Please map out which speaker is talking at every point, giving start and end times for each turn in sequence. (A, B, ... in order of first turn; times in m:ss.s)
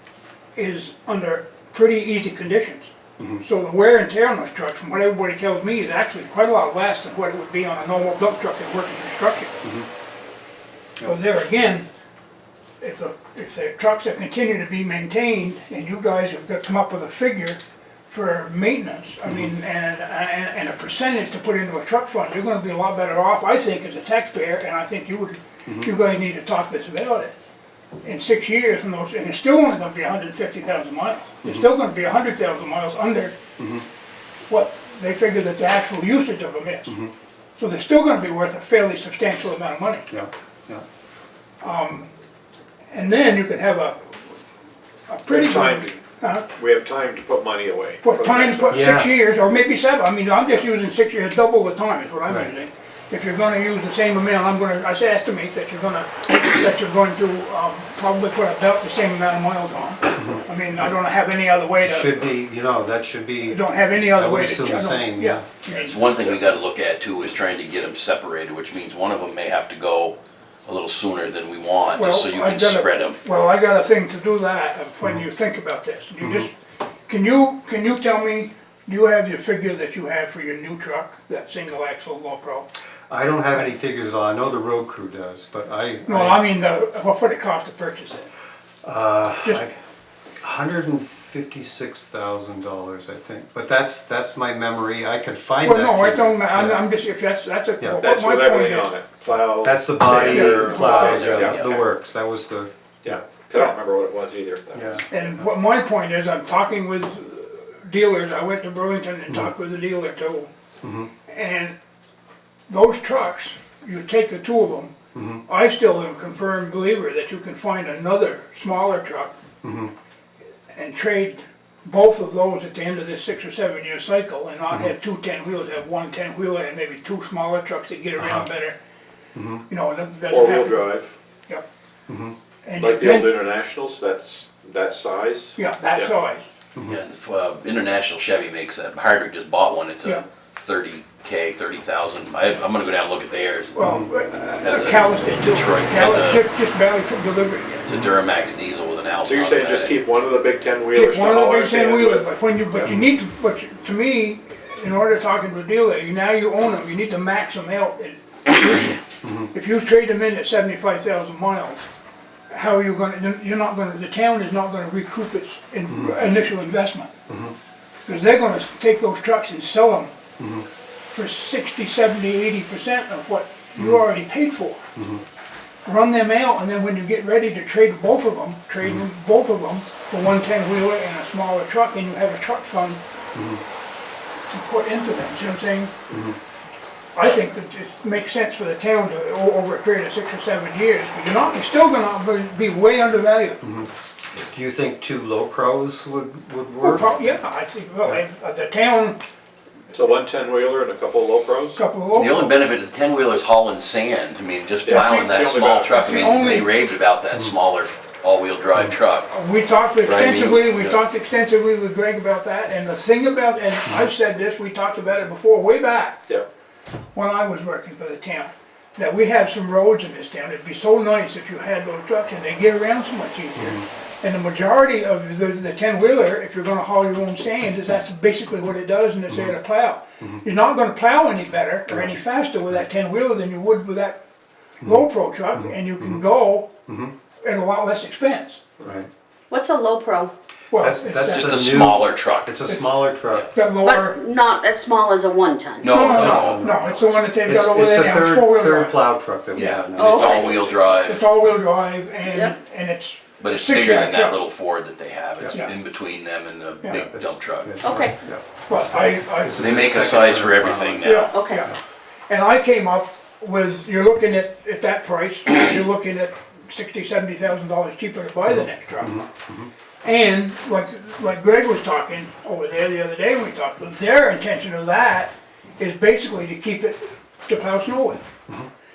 0:00.6-0:09.7 A
0:11.0-0:11.9 A
0:12.8-0:27.3 A
0:25.7-0:25.9 B
0:28.0-0:33.4 A
0:33.6-0:33.8 B
0:34.5-0:37.0 A
0:37.6-0:40.1 A
0:40.1-0:40.8 B
0:41.6-0:42.1 A
0:42.9-0:44.2 A
0:45.1-0:46.5 A
0:45.3-0:48.8 C
0:48.0-1:02.3 A
0:48.7-0:49.2 B
1:01.8-1:05.5 B
1:03.5-1:06.0 A
1:05.7-1:13.2 D
1:11.9-1:16.5 A
1:16.2-1:16.5 B
1:17.1-1:22.7 A
1:23.1-1:26.5 B
1:26.1-1:28.3 A
1:28.8-1:29.8 B
1:30.4-1:36.9 B
1:35.6-1:38.9 A
1:38.0-1:41.8 C
1:39.6-1:43.2 B
1:40.2-1:41.5 A
1:41.0-1:41.8 D
1:43.0-1:45.0 C
1:44.7-1:45.0 B
1:45.1-1:50.5 A
1:50.8-1:51.1 B
1:51.3-1:51.7 A
1:52.7-1:54.9 A
1:55.2-1:55.4 B
1:55.5-1:59.4 A
1:59.6-1:59.9 B
2:00.7-2:08.8 A
2:08.2-2:08.5 B
2:09.4-2:09.6 B
2:09.7-2:11.6 A
2:10.3-2:11.2 C
2:12.1-2:12.4 B
2:12.6-2:13.4 A
2:12.8-2:16.1 C
2:15.6-2:16.4 A
2:16.8-2:23.7 D
2:23.7-2:27.8 A
2:24.6-2:26.4 D
2:27.7-2:30.0 D
2:29.2-2:32.3 C
2:30.9-2:41.8 A
2:32.8-2:33.1 B
2:39.2-2:39.5 B
2:42.5-2:47.1 A
2:48.1-2:50.1 A
2:50.4-2:50.7 B
2:51.1-2:54.8 A
2:53.8-2:54.0 B
2:55.0-2:55.2 B
2:55.9-3:03.0 A
3:03.4-3:03.6 B
3:04.5-3:06.0 A
3:06.1-3:06.4 B
3:07.2-3:13.6 A
3:13.6-3:17.2 B
3:16.8-3:19.2 A
3:19.9-3:21.8 C
3:21.8-3:22.6 A
3:22.1-3:29.3 D
3:24.9-3:26.1 C
3:24.9-3:25.4 A
3:25.9-3:26.7 A
3:29.3-3:36.3 A
3:30.0-3:31.0 D
3:37.1-3:54.2 A
3:43.6-3:43.8 B
3:54.8-3:56.7 A
3:55.5-3:56.2 B
3:56.9-3:57.1 B
3:57.4-3:58.6 A
3:58.8-3:59.1 B
3:59.5-4:00.3 E
4:00.7-4:01.8 A
4:00.8-4:03.6 B
4:01.3-4:02.6 D
4:03.5-4:04.2 A
4:03.8-4:06.0 E
4:05.8-4:07.0 D
4:05.9-4:09.0 A
4:05.9-4:10.6 B
4:09.6-4:11.2 D
4:09.9-4:10.6 E
4:10.0-4:10.9 C
4:11.0-4:14.4 A
4:12.3-4:12.6 E
4:13.4-4:17.9 D
4:15.4-4:15.7 B
4:16.9-4:21.7 B
4:17.8-4:18.2 E
4:18.7-4:19.8 A
4:19.6-4:21.3 D
4:21.0-4:21.8 A
4:21.3-4:21.6 E
4:22.3-4:29.3 A
4:28.5-4:29.7 B
4:30.0-4:38.3 A